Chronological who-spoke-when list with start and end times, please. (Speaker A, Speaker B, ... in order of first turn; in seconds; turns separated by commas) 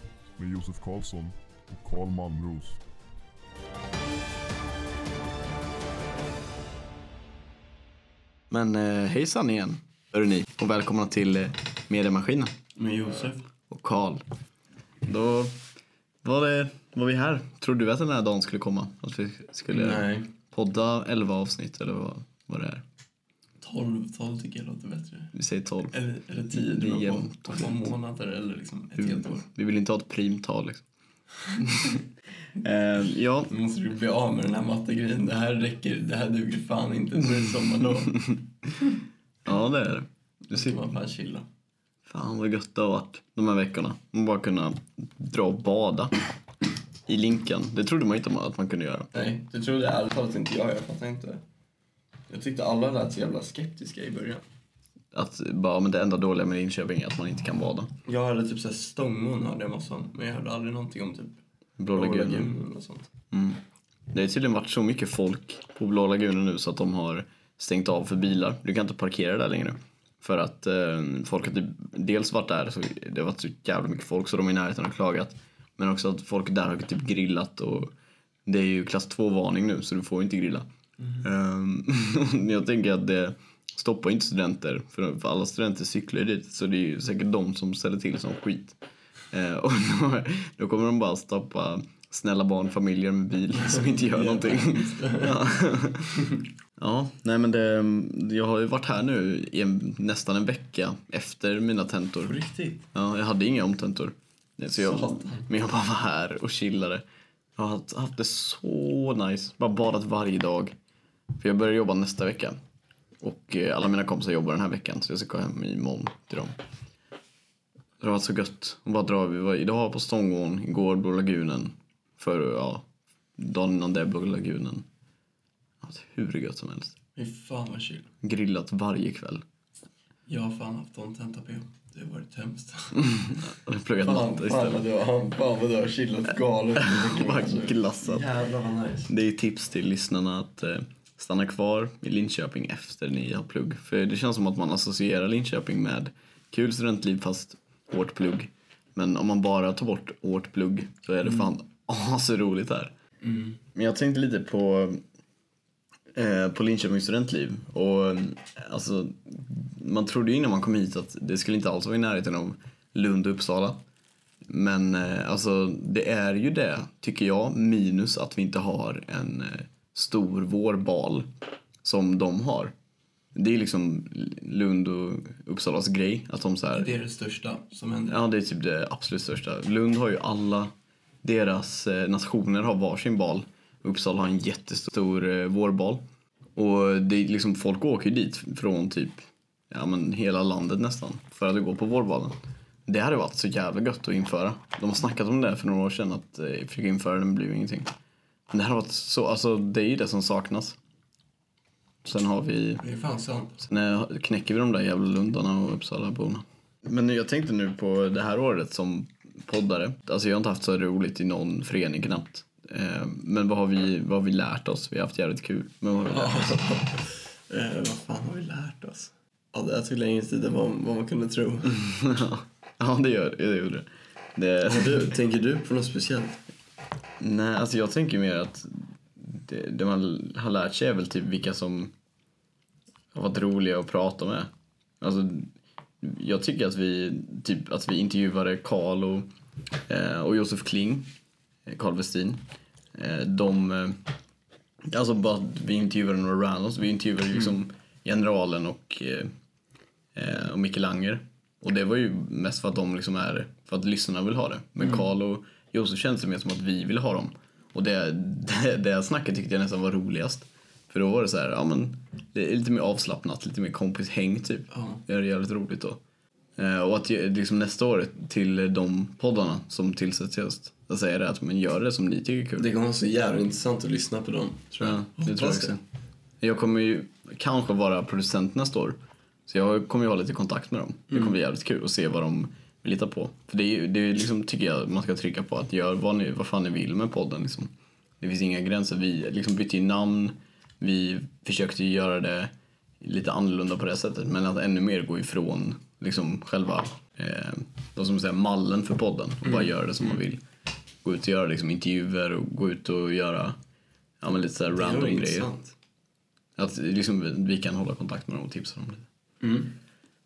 Speaker A: 0.4-2.8, Speaker B: 8.5-12.5, Speaker C: 12.8-13.5, Speaker B: 13.7-14.2, Speaker B: 15.0-15.5, Speaker B: 16.2-22.8, Speaker C: 19.7-20.3, Speaker C: 23.6-25.3, Speaker B: 25.3-25.9, Speaker C: 25.9-29.4, Speaker B: 26.5-27.9, Speaker B: 29.0-30.8, Speaker B: 31.6-32.0, Speaker B: 32.6-33.5, Speaker C: 33.5-38.2, Speaker B: 37.3-38.5, Speaker B: 39.5-40.9, Speaker C: 40.5-41.5, Speaker B: 42.1-46.1, Speaker B: 47.1-49.1, Speaker C: 49.1-51.4, Speaker C: 52.3-54.4, Speaker B: 55.1-57.9, Speaker C: 58.0-61.4, Speaker B: 61.8-62.5, Speaker C: 61.9-63.1, Speaker B: 63.3-77.9, Speaker B: 78.5-80.7, Speaker C: 81.0-81.2, Speaker B: 81.2-88.8, Speaker B: 89.3-102.4, Speaker C: 93.6-95.4, Speaker C: 102.2-102.8, Speaker B: 102.9-107.0, Speaker C: 104.8-105.5, Speaker B: 107.6-110.7, Speaker B: 111.3-112.5, Speaker B: 113.2-116.5, Speaker B: 118.0-122.8, Speaker B: 123.4-124.8, Speaker B: 125.8-126.9, Speaker C: 127.2-128.1, Speaker B: 128.2-129.4, Speaker C: 130.3-133.2, Speaker B: 133.3-134.9, Speaker C: 134.0-139.1, Speaker B: 136.8-138.3, Speaker B: 139.1-152.9, Speaker C: 153.2-153.6, Speaker B: 153.7-155.0, Speaker B: 156.1-163.8, Speaker B: 164.5-171.3, Speaker B: 171.8-172.7, Speaker B: 173.3-176.9, Speaker C: 176.7-178.2, Speaker B: 178.1-180.7, Speaker B: 181.2-186.0, Speaker B: 186.6-192.3, Speaker B: 192.9-197.9, Speaker B: 198.5-200.8, Speaker B: 202.0-202.8, Speaker C: 202.8-203.6, Speaker B: 203.6-216.6, Speaker C: 216.1-221.8, Speaker B: 221.7-225.1, Speaker C: 224.6-226.4, Speaker B: 227.2-231.9, Speaker B: 233.1-234.5, Speaker B: 235.0-235.5, Speaker B: 236.0-239.3, Speaker B: 239.9-241.1, Speaker B: 241.7-242.4, Speaker B: 242.9-244.0, Speaker B: 244.9-249.3, Speaker B: 250.1-266.0, Speaker C: 264.7-265.0, Speaker B: 266.6-272.7, Speaker C: 272.6-275.8, Speaker B: 274.8-275.8, Speaker B: 276.4-278.9, Speaker B: 279.5-287.7, Speaker B: 288.2-300.4, Speaker C: 299.4-300.2, Speaker B: 301.0-303.6, Speaker B: 304.2-305.5, Speaker C: 304.7-305.7, Speaker B: 306.6-309.1, Speaker C: 309.4-309.7